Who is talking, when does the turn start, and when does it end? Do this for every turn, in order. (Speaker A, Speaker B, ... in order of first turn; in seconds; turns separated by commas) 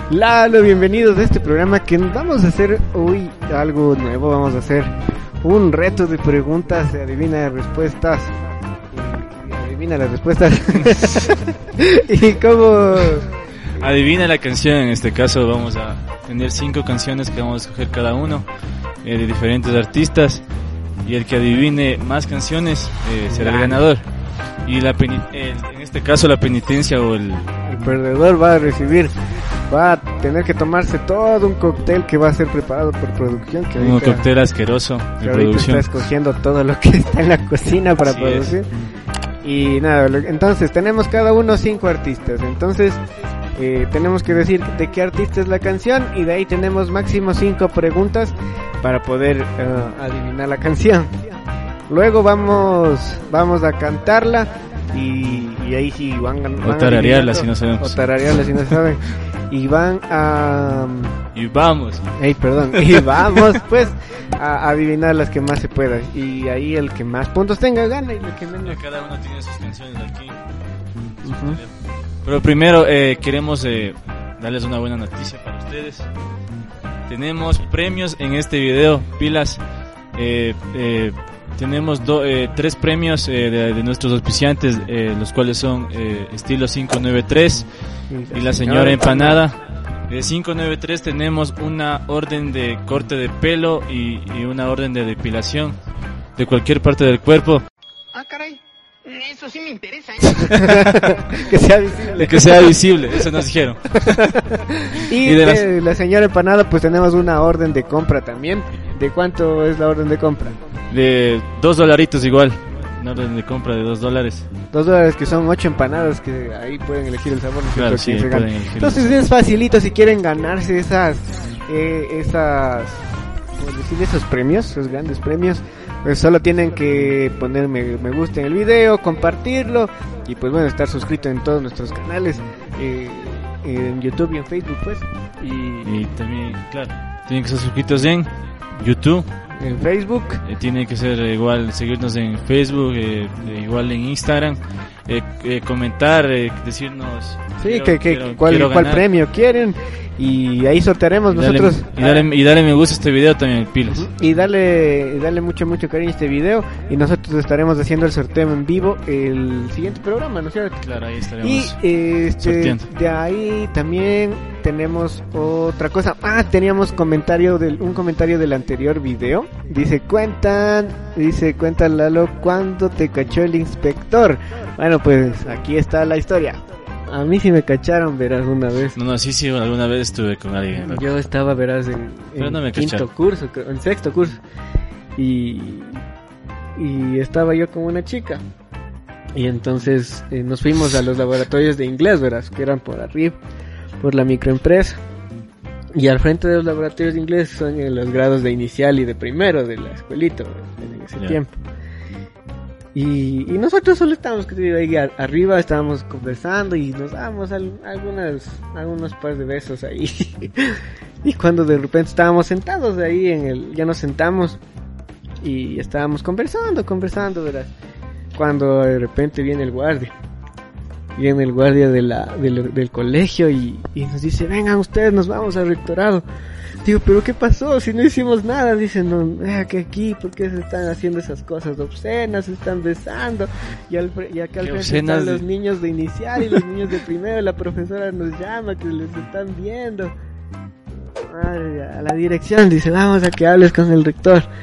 Speaker A: 0.1-8.3, Speaker A: 8.9-13.8, Speaker B: 10.7-11.4, Speaker B: 13.7-18.5, Speaker B: 19.0-20.4, Speaker B: 21.0-27.5, Speaker A: 23.3-23.8, Speaker A: 27.6-29.1, Speaker A: 29.7-34.3, Speaker B: 33.8-36.0, Speaker A: 35.2-38.7, Speaker B: 38.0-38.6, Speaker A: 39.4-43.0, Speaker A: 43.5-51.4, Speaker A: 51.9-61.2, Speaker B: 56.6-58.8, Speaker B: 61.3-63.5, Speaker A: 62.2-68.8, Speaker B: 68.6-70.4, Speaker B: 71.0-76.1, Speaker A: 71.2-71.6, Speaker B: 77.1-79.6, Speaker B: 80.1-95.8, Speaker A: 88.1-89.4, Speaker B: 96.3-97.6, Speaker C: 98.1-100.6, Speaker B: 100.2-101.1, Speaker A: 100.5-102.8, Speaker B: 102.1-104.3, Speaker A: 104.0-110.6, Speaker B: 105.1-105.7, Speaker B: 110.9-114.5, Speaker A: 114.7-136.0, Speaker B: 117.7-119.2, Speaker B: 135.8-139.3, Speaker A: 139.6-140.4, Speaker B: 140.4-149.1, Speaker A: 147.6-152.3, Speaker B: 151.3-154.1, Speaker A: 153.9-160.8, Speaker B: 160.8-162.9, Speaker A: 161.4-179.0, Speaker B: 178.9-181.2, Speaker A: 180.8-184.4, Speaker B: 182.4-183.1, Speaker A: 185.2-186.0, Speaker A: 186.8-188.4, Speaker A: 189.3-193.4, Speaker A: 194.0-195.0, Speaker A: 195.9-201.6, Speaker A: 202.9-214.6, Speaker A: 215.4-217.7, Speaker A: 218.3-220.1, Speaker A: 221.2-226.2, Speaker A: 226.8-240.1, Speaker B: 234.6-235.4, Speaker A: 241.0-244.5